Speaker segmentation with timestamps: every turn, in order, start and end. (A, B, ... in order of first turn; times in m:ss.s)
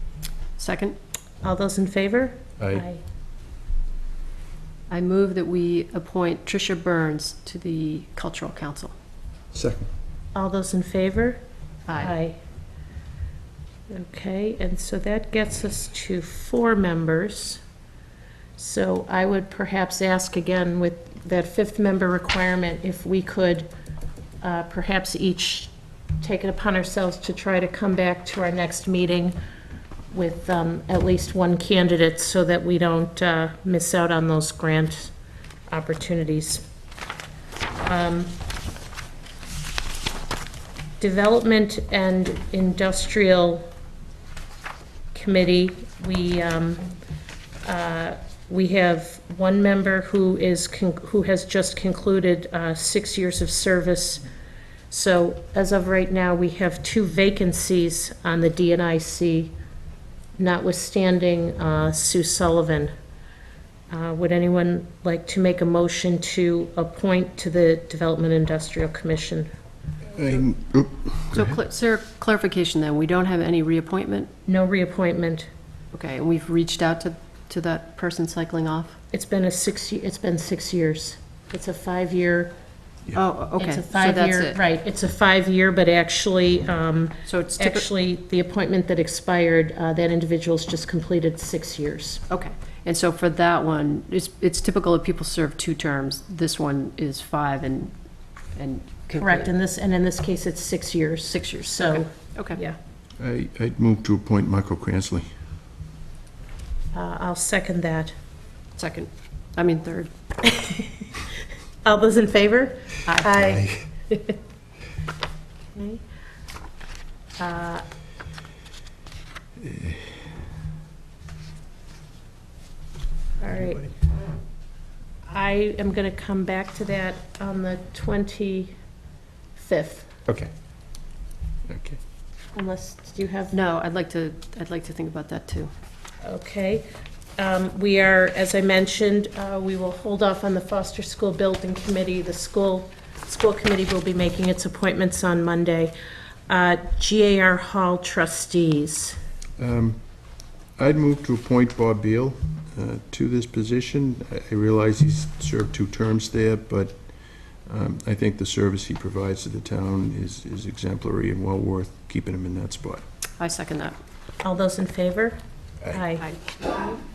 0:00.6-0:01.0 A
0:01.4-0:03.0 B
0:02.6-0:02.8 C
0:04.9-0:09.0 A
0:09.5-0:09.9 C
0:10.3-0:11.4 B
0:12.0-0:12.4 B
0:13.9-0:17.6 B
0:18.6-0:23.7 B
0:24.4-0:29.4 B
0:30.1-0:35.1 B
0:35.7-0:36.6 B
0:37.8-0:38.4 B
0:41.0-0:43.7 B
0:45.1-0:46.9 B
0:47.6-0:54.2 B
0:54.9-0:59.5 B
1:00.4-1:02.9 B
1:03.9-1:09.5 B
1:10.1-1:11.6 C
1:11.3-1:14.3 A
1:14.5-1:15.5 B
1:15.9-1:19.0 A
1:19.1-1:22.5 B
1:23.2-1:24.6 A
1:23.6-1:32.2 B
1:27.3-1:27.9 A
1:32.3-1:37.9 A
1:38.6-1:39.5 A
1:39.2-1:42.6 B
1:41.3-1:42.8 A
1:43.2-1:45.3 C
1:46.9-1:48.1 B
1:48.8-1:50.1 A
1:50.4-1:51.1 B
1:51.8-1:53.8 B
1:53.1-1:53.3 A
1:53.5-1:53.9 C
1:55.7-1:56.0 B
1:57.4-1:57.8 B
1:59.7-2:00.0 C
2:03.4-2:03.9 B
2:05.3-2:08.8 B
2:09.6-2:10.2 B
2:10.3-2:10.5 C
2:11.7-2:12.0 C
2:12.5-2:13.6 B
2:13.5-2:15.7 A
2:16.2-2:16.9 B
2:17.4-2:25.9 B
2:26.5-2:29.2 B
2:29.6-2:30.0 C
2:30.8-2:37.1 C
2:37.6-2:43.0 C
2:43.4-2:44.0 A
2:44.4-2:47.0 B